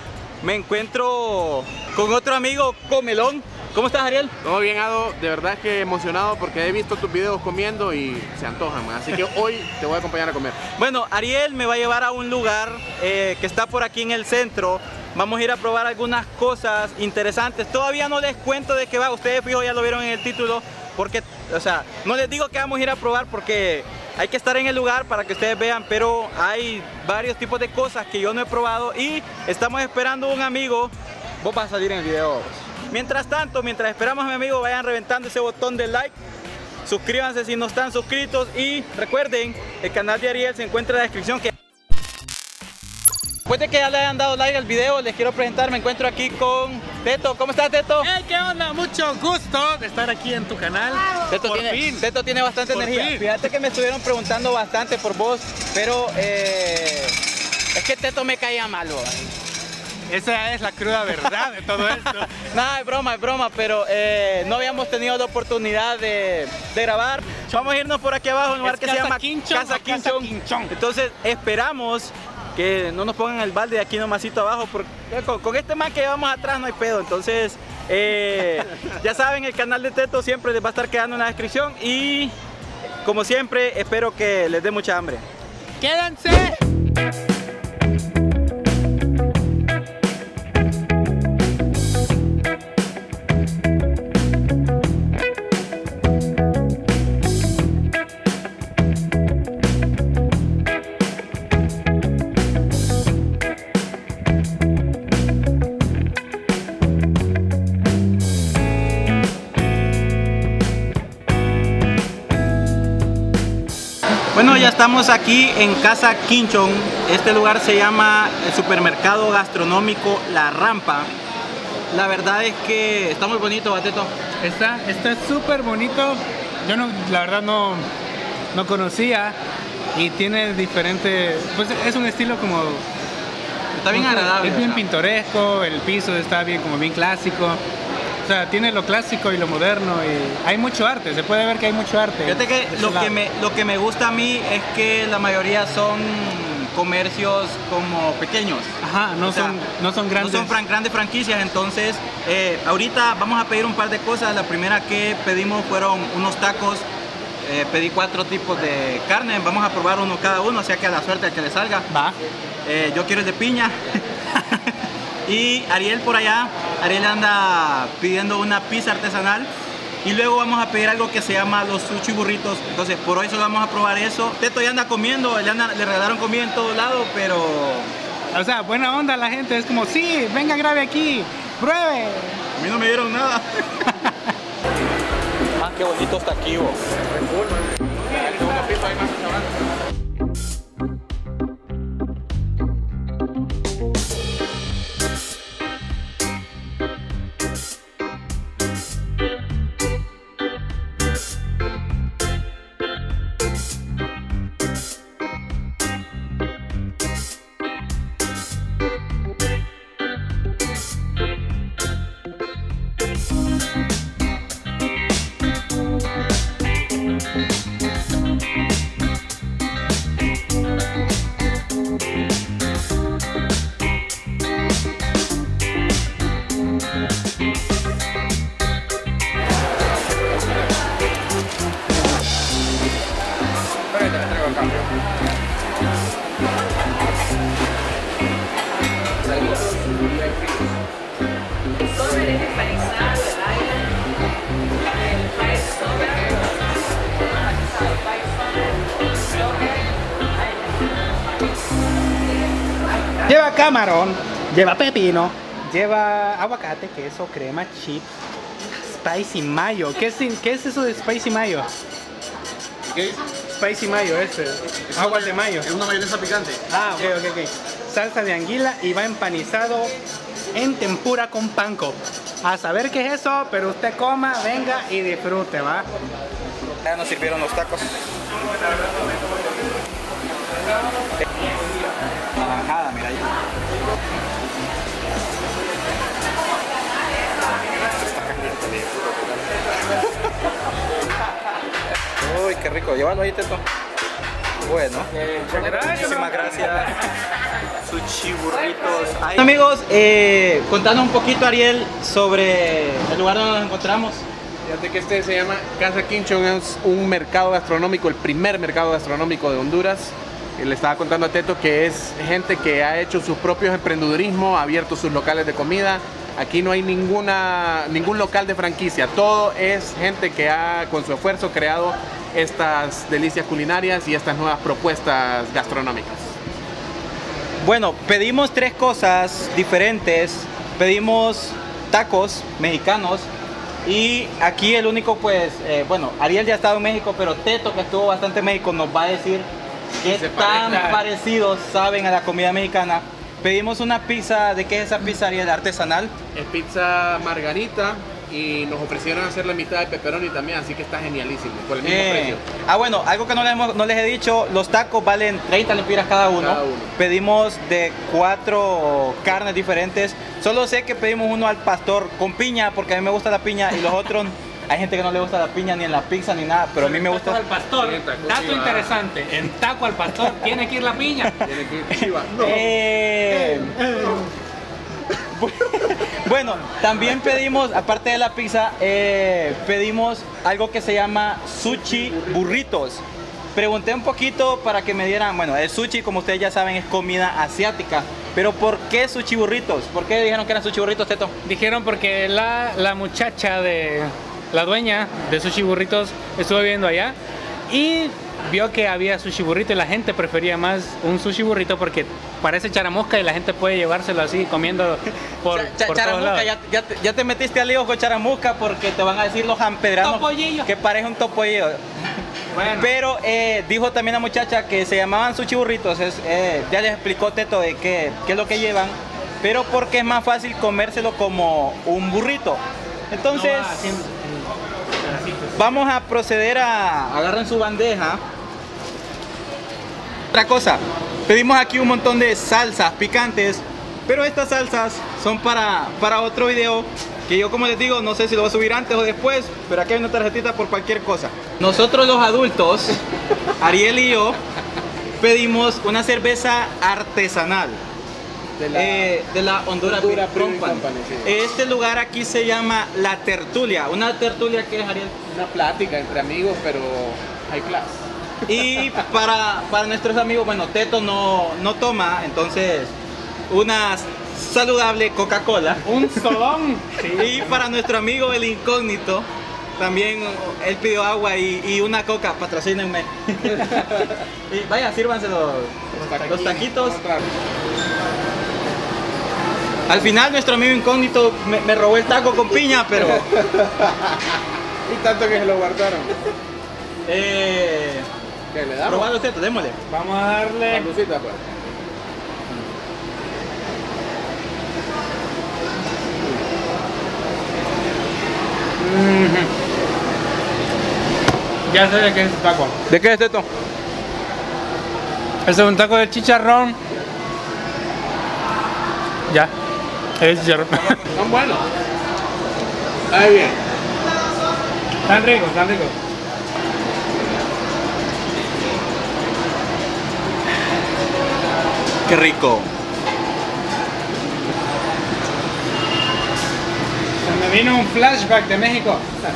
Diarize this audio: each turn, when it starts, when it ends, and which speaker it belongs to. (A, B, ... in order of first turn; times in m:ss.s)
0:00.4-0:04.3 A
0:04.4-0:10.6 B
0:10.7-0:36.1 A
0:36.8-0:41.5 A
0:43.5-0:48.1 A
0:48.0-0:52.1 C
0:51.2-0:57.2 A
0:52.7-0:53.2 C
0:57.8-0:59.3 A
1:00.1-1:02.3 C
1:01.3-1:22.3 A
1:08.6-1:10.7 C
1:23.0-1:25.2 A
1:25.8-1:26.6 C
1:54.3-2:01.1 A
2:01.9-2:04.1 A
2:04.4-2:07.9 C
2:08.5-2:09.4 C
2:09.9-2:12.8 C
2:13.8-2:14.8 A
2:13.9-2:17.6 C
2:18.2-2:23.2 C
2:22.2-2:29.6 A
2:28.8-2:30.5 C
2:30.2-2:36.9 A
2:37.4-2:41.9 A
2:41.9-2:42.2 C
2:42.6-2:44.7 A
2:45.3-2:49.5 A
2:50.0-2:57.9 A
2:58.3-3:02.4 C
3:02.6-3:04.1 A
3:05.6-3:06.8 A
3:07.2-3:09.4 B
3:54.0-3:54.8 B
3:59.4-4:00.6 B
4:13.2-4:18.1 C
4:18.9-4:21.7 C
4:22.9-4:23.2 B
4:23.6-4:25.7 C
4:24.9-4:26.6 B
4:26.7-4:29.9 C
4:30.5-4:35.9 C
4:36.8-4:37.9 A
4:42.4-4:43.4 A
4:48.1-4:49.6 B
4:52.2-4:53.6 A
4:54.6-4:57.0 A
4:57.8-5:04.2 A
5:04.6-5:26.3 B
5:27.6-5:33.3 A
5:33.8-5:39.5 A
5:40.0-5:46.1 A
5:40.0-5:41.0 B
5:40.6-5:41.0 C
5:46.4-5:52.4 B
5:51.8-6:07.4 A
5:56.4-5:56.9 B
6:06.8-6:11.3 C
6:07.8-6:09.0 B
6:11.4-6:12.6 B
6:12.0-6:14.0 A
6:13.5-6:14.2 C
6:15.3-6:23.0 A
6:21.7-6:22.5 B
6:23.6-6:31.3 A
6:31.4-6:37.2 C
6:37.7-6:46.5 C
6:45.5-6:51.8 A
6:50.0-6:50.7 C
6:52.6-6:52.9 C
6:52.6-7:04.0 A
7:03.3-7:05.6 C
7:05.6-7:08.2 A
7:10.3-7:23.0 A
7:23.6-7:24.4 A
7:25.2-7:27.8 A
7:28.6-7:29.2 B
7:28.7-7:35.1 A
7:29.8-7:31.3 B
7:35.3-7:39.0 B
7:38.5-7:42.9 A
7:43.5-7:45.9 A
7:45.8-7:47.6 C
7:47.1-7:49.3 A
7:49.8-7:57.0 A
7:53.5-7:54.1 B
7:56.0-7:57.2 B
7:59.9-8:03.3 A
8:02.9-8:06.2 B
8:07.1-8:08.1 A
8:08.5-8:09.1 B
8:08.8-8:09.8 A
8:09.9-8:10.9 C
8:10.6-8:11.4 B
8:18.8-8:19.5 C
8:21.7-8:22.8 C
8:22.9-8:23.5 A
8:25.4-8:26.8 C
8:30.2-8:31.0 C
8:31.1-8:31.6 B
8:33.1-8:33.6 B
8:35.1-8:36.0 C
8:42.1-8:42.7 A
8:47.2-8:49.0 C